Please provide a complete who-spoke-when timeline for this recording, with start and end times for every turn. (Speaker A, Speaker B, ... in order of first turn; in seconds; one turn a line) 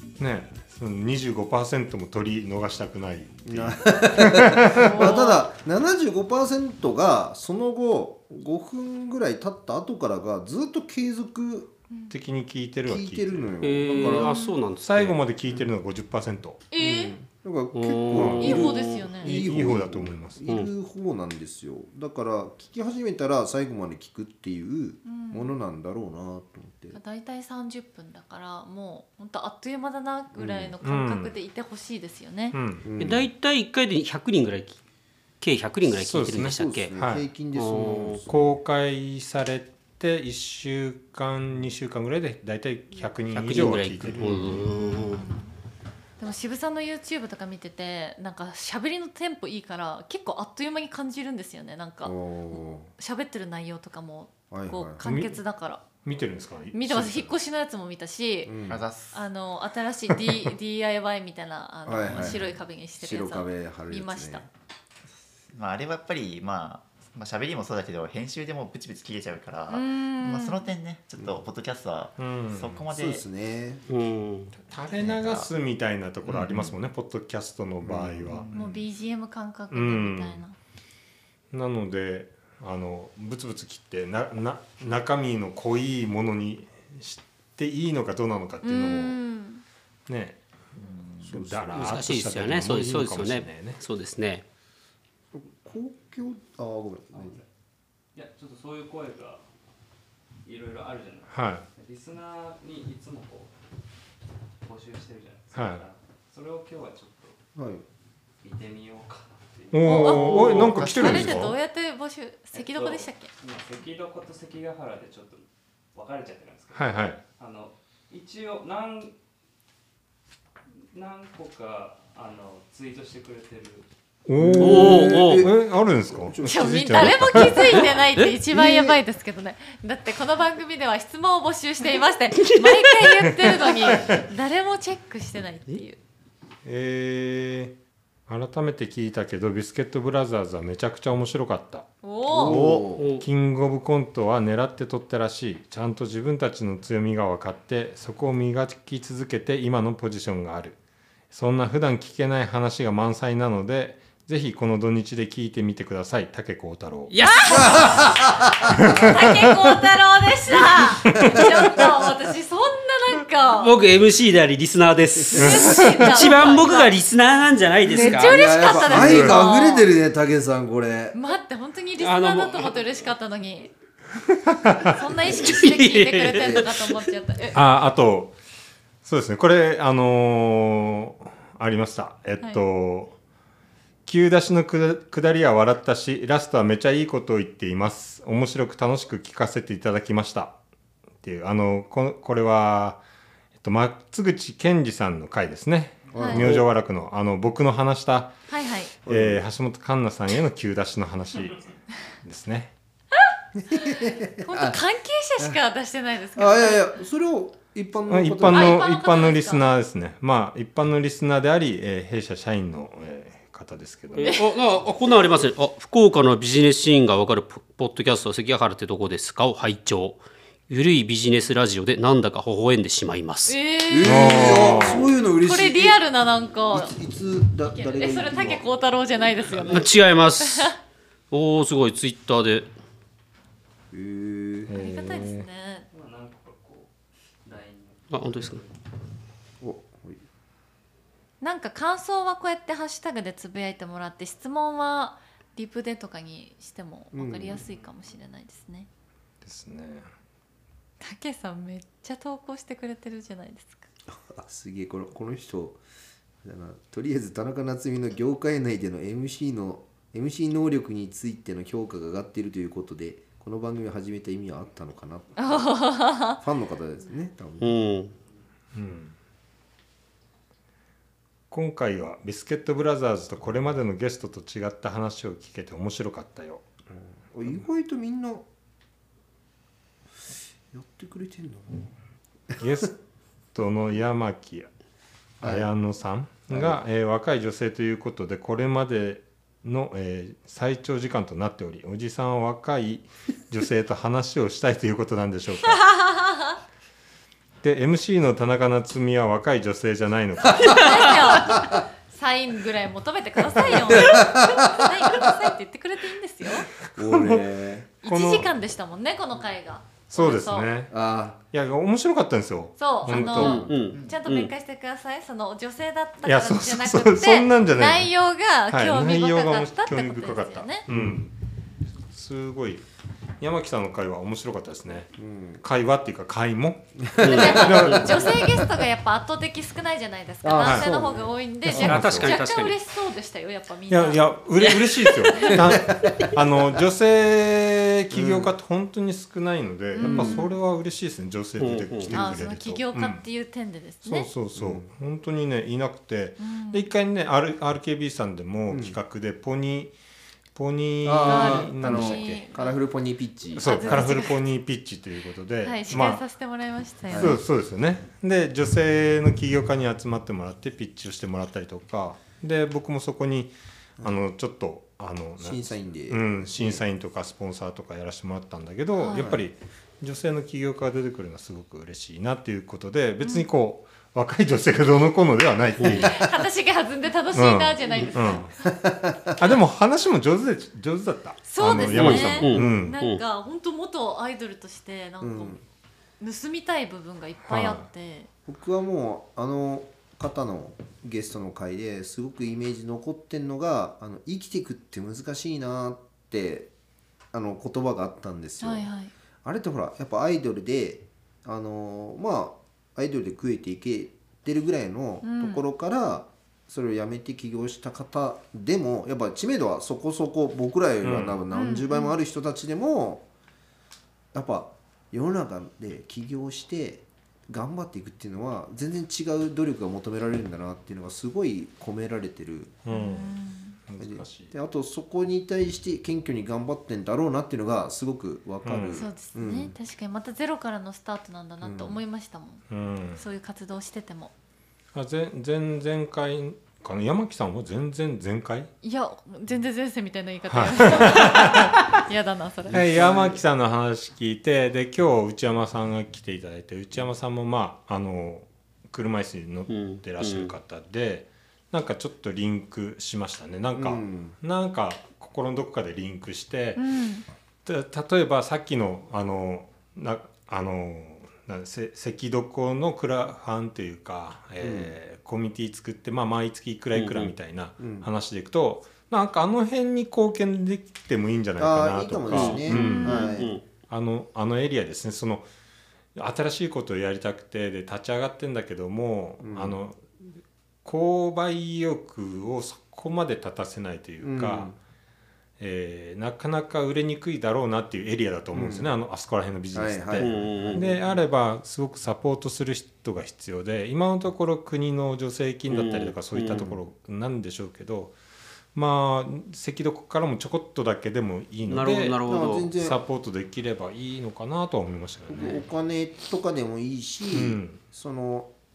Speaker A: 0.2-5.0
Speaker B: 3.5-11.7
Speaker C: 4.6-5.5
Speaker A: 12.1-14.2
Speaker B: 12.9-14.3
Speaker D: 13.6-15.2
Speaker C: 14.2-14.6
Speaker A: 14.8-16.6
Speaker C: 16.7-17.1
Speaker B: 16.8-27.0
Speaker D: 17.7-19.1
Speaker A: 18.2-18.6
Speaker C: 18.4-19.4
Speaker A: 19.2-20.4
Speaker C: 25.1-25.6
Speaker C: 26.9-32.6
Speaker B: 30.4-30.7
Speaker A: 30.8-31.4
Speaker A: 32.5-32.9
Speaker B: 32.8-33.3
Speaker D: 33.0-34.8
Speaker D: 35.4-36.9
Speaker A: 35.9-37.3
Speaker B: 36.4-38.6
Speaker D: 37.5-38.2
Speaker A: 38.3-44.6
Speaker D: 43.4-45.3
Speaker B: 44.2-44.5
Speaker C: 44.5-45.5
Speaker C: 46.2-55.9
Speaker B: 52.0-52.9
Speaker B: 54.5-55.0
Speaker A: 55.0-55.4
Speaker A: 56.0-57.4
Speaker C: 56.7-58.6
Speaker B: 58.5-58.8
Speaker E: 58.7-59.2
Speaker C: 59.1-64.5
Speaker B: 61.9-64.5
Speaker E: 65.5-73.2
Speaker C: 69.7-70.7
Speaker A: 72.2-72.8
Speaker B: 72.9-73.8
Speaker D: 73.9-74.5
Speaker A: 74.6-78.5
Speaker E: 74.9-75.5
Speaker B: 77.8-78.4
Speaker E: 78.3-78.8
Speaker C: 78.5-80.5
Speaker A: 79.7-80.4
Speaker A: 81.5-89.2
Speaker C: 88.6-89.6
Speaker A: 90.1-90.4
Speaker E: 90.8-91.4
Speaker A: 91.2-93.8
Speaker B: 91.3-91.9
Speaker D: 91.7-94.4
Speaker B: 95.3-97.4
Speaker F: 97.1-97.5
Speaker F: 98.1-99.5
Speaker F: 100.4-103.5
Speaker A: 101.3-101.7
Speaker F: 104.6-107.4
Speaker A: 105.5-105.8
Speaker B: 107.5-107.8
Speaker F: 108.4-110.6
Speaker A: 109.7-111.6
Speaker C: 109.8-113.3
Speaker D: 110.1-111.3
Speaker F: 112.5-119.1
Speaker A: 116.7-117.2
Speaker F: 120.9-123.9
Speaker A: 124.3-127.9
Speaker B: 124.4-127.5
Speaker D: 124.5-125.5
Speaker C: 126.4-136.0
Speaker D: 127.8-128.3
Speaker B: 128.5-129.0
Speaker D: 132.6-132.9
Speaker A: 133.7-134.2
Speaker A: 136.6-137.7
Speaker A: 138.3-141.9
Speaker C: 142.0-142.6
Speaker B: 142.3-143.1
Speaker E: 142.5-142.8
Speaker A: 142.5-150.8
Speaker D: 143.0-143.3
Speaker A: 151.3-157.2
Speaker D: 157.1-158.1
Speaker C: 157.3-158.3
Speaker B: 157.6-158.9
Speaker A: 158.8-159.5
Speaker C: 158.9-163.8
Speaker B: 161.2-162.0
Speaker D: 163.5-168.6
Speaker C: 165.3-166.9
Speaker A: 165.4-166.2
Speaker C: 167.9-169.9
Speaker B: 167.9-171.2
Speaker A: 168.8-169.5
Speaker C: 171.1-173.7
Speaker D: 172.0-172.8
Speaker A: 174.5-175.0
Speaker C: 174.8-177.6
Speaker D: 175.3-177.1
Speaker B: 176.4-176.6
Speaker A: 177.5-178.3
Speaker A: 179.0-183.2
Speaker A: 184.1-190.6
Speaker A: 191.2-193.0
Speaker A: 193.6-198.4
Speaker B: 196.1-196.6
Speaker C: 196.2-196.5
Speaker C: 198.5-198.9
Speaker A: 199.0-202.7
Speaker B: 199.1-199.4
Speaker C: 203.2-207.0
Speaker B: 203.6-204.8
Speaker B: 206.3-208.8
Speaker A: 208.1-214.4
Speaker C: 208.5-209.7
Speaker D: 214.1-223.6
Speaker C: 223.5-226.9
Speaker B: 223.9-226.0
Speaker A: 224.0-225.1
Speaker B: 226.7-228.6
Speaker C: 227.7-230.8
Speaker D: 229.6-230.7
Speaker D: 231.3-232.7
Speaker B: 233.9-234.7
Speaker A: 234.7-235.5
Speaker C: 234.7-235.9
Speaker F: 235.9-238.8
Speaker D: 238.1-238.6
Speaker B: 239.6-240.2
Speaker C: 241.4-248.9
Speaker B: 247.1-247.7
Speaker F: 247.6-248.1
Speaker A: 249.4-250.1
Speaker C: 251.0-253.9
Speaker B: 254.1-255.8
Speaker B: 256.4-267.8
Speaker C: 265.4-266.4
Speaker D: 267.6-268.1
Speaker A: 268.7-269.1
Speaker A: 271.5-276.6
Speaker B: 277.2-278.5
Speaker B: 280.7-281.9
Speaker A: 282.6-283.0
Speaker A: 283.5-284.7
Speaker A: 285.4-296.1
Speaker B: 285.4-285.7
Speaker B: 286.5-286.8
Speaker C: 295.7-296.5
Speaker A: 297.6-301.5
Speaker C: 300.6-306.7
Speaker B: 303.7-305.4
Speaker A: 306.9-307.5
Speaker B: 307.0-307.9
Speaker A: 308.0-308.5
Speaker C: 308.0-310.7
Speaker A: 310.1-310.9
Speaker B: 310.9-311.4
Speaker A: 311.5-313.7
Speaker C: 312.8-320.9
Speaker D: 313.1-314.5
Speaker B: 313.4-313.7
Speaker A: 316.2-318.1
Speaker A: 318.7-321.3
Speaker B: 320.9-321.2
Speaker A: 322.1-322.8
Speaker A: 323.4-328.4
Speaker B: 325.2-325.6
Speaker B: 327.0-328.6
Speaker D: 327.2-328.1
Speaker C: 327.2-334.3
Speaker B: 330.4-331.3
Speaker A: 330.6-331.1
Speaker A: 331.7-332.4
Speaker D: 331.7-332.8
Speaker A: 333.9-343.2
Speaker D: 334.6-335.6
Speaker B: 335.7-336.3
Speaker B: 338.1-338.5
Speaker C: 339.9-340.5
Speaker B: 340.0-340.4
Speaker D: 341.6-342.1
Speaker C: 342.1-344.3
Speaker A: 344.0-349.9
Speaker B: 344.6-344.9
Speaker C: 346.4-346.9
Speaker B: 348.7-349.0
Speaker A: 350.5-352.5
Speaker B: 351.0-354.1
Speaker C: 351.2-352.8
Speaker A: 353.6-356.2
Speaker C: 353.6-354.4
Speaker C: 355.6-357.4
Speaker B: 357.1-357.4
Speaker A: 357.1-376.4
Speaker B: 365.4-366.8
Speaker C: 369.0-369.3
Speaker B: 369.1-369.4
Speaker C: 373.2-373.5
Speaker C: 375.8-378.5
Speaker A: 377.3-378.6
Speaker B: 378.6-379.5
Speaker A: 379.4-383.0
Speaker C: 381.5-385.6
Speaker D: 381.8-383.2
Speaker B: 385.2-385.6
Speaker C: 386.2-388.3
Speaker A: 387.5-387.9
Speaker B: 388.5-396.7
Speaker B: 397.3-398.9
Speaker C: 398.6-399.1
Speaker B: 399.4-413.3
Speaker C: 405.2-405.6
Speaker A: 411.0-411.4
Speaker C: 411.5-412.1
Speaker B: 414.3-422.8
Speaker A: 422.9-424.5
Speaker C: 422.9-423.8
Speaker B: 424.0-429.8
Speaker A: 428.6-429.1
Speaker C: 428.9-434.3
Speaker B: 431.6-432.0
Speaker A: 432.7-433.2
Speaker A: 434.9-438.7
Speaker C: 438.8-442.8
Speaker A: 440.5-441.8
Speaker A: 442.7-456.8
Speaker D: 449.7-450.5
Speaker B: 453.8-454.4
Speaker C: 456.8-457.3
Speaker A: 457.6-473.4
Speaker B: 464.6-464.9
Speaker D: 466.9-467.3
Speaker B: 467.8-468.1
Speaker B: 471.6-473.5
Speaker D: 472.3-473.6
Speaker C: 472.7-473.3
Speaker A: 473.9-475.5
Speaker A: 476.1-480.1
Speaker B: 479.4-479.8
Speaker A: 480.8-484.8
Speaker B: 484.2-484.8
Speaker A: 485.6-498.2
Speaker B: 488.5-488.9
Speaker B: 489.7-491.0
Speaker D: 490.1-490.9
Speaker D: 495.7-496.8
Speaker A: 498.7-505.6
Speaker D: 501.6-502.7
Speaker B: 502.3-503.0
Speaker B: 505.3-508.5
Speaker A: 507.3-507.8